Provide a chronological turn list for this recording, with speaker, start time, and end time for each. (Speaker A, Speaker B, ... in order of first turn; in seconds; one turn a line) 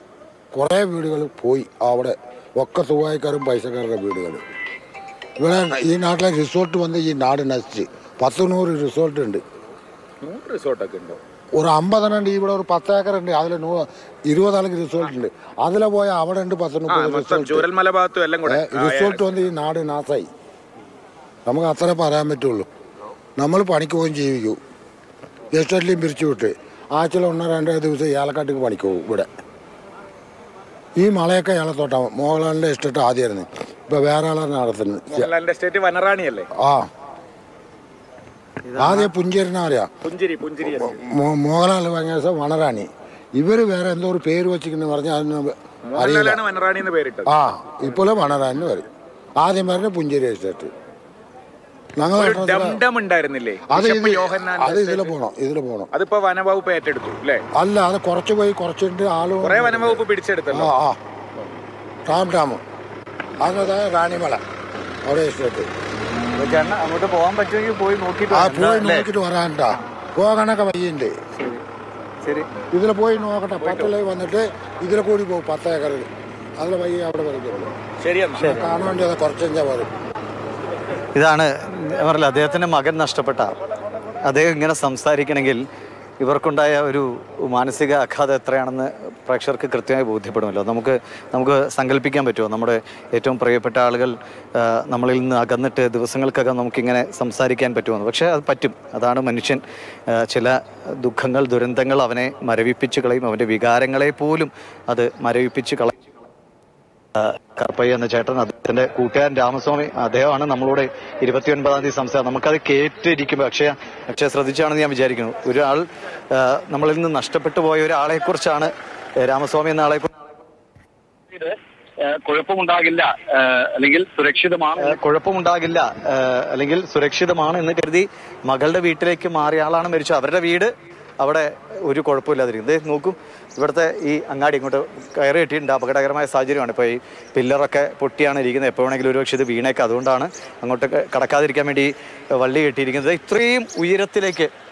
Speaker A: 0.5-4.4
Speaker A: 5.4-9.4
Speaker B: 10.2-11.2
Speaker A: 11.6-17.7
Speaker B: 16.9-19.3
Speaker A: 18.5-20.3
Speaker A: 21.5-22.7
Speaker A: 23.4-24.6
Speaker A: 25.5-29.3
Speaker A: 31.0-35.3
Speaker B: 35.1-36.5
Speaker A: 36.6-36.9
Speaker C: 38.6-39.1
Speaker A: 38.8-39.9
Speaker B: 40.0-41.0
Speaker A: 40.7-46.4
Speaker B: 45.9-47.3
Speaker A: 47.3-48.9
Speaker A: 49.4-50.7
Speaker A: 52.0-52.8
Speaker B: 52.1-55.1
Speaker A: 53.7-55.9
Speaker B: 55.9-57.5
Speaker A: 57.5-61.0
Speaker B: 59.4-60.7
Speaker A: 62.1-62.6
Speaker A: 63.4-64.4
Speaker A: 65.0-65.7
Speaker C: 66.4-69.1
Speaker A: 68.3-71.2
Speaker C: 72.2-72.5
Speaker A: 72.7-76.1
Speaker B: 73.6-73.9
Speaker A: 76.6-77.7
Speaker B: 78.0-78.5
Speaker A: 78.4-79.9
Speaker C: 81.2-83.5
Speaker C: 84.2-85.6
Speaker C: 86.2-105.9
Speaker C: 107.2-120.1
Speaker D: 121.3-125.0
Speaker C: 124.8-144.5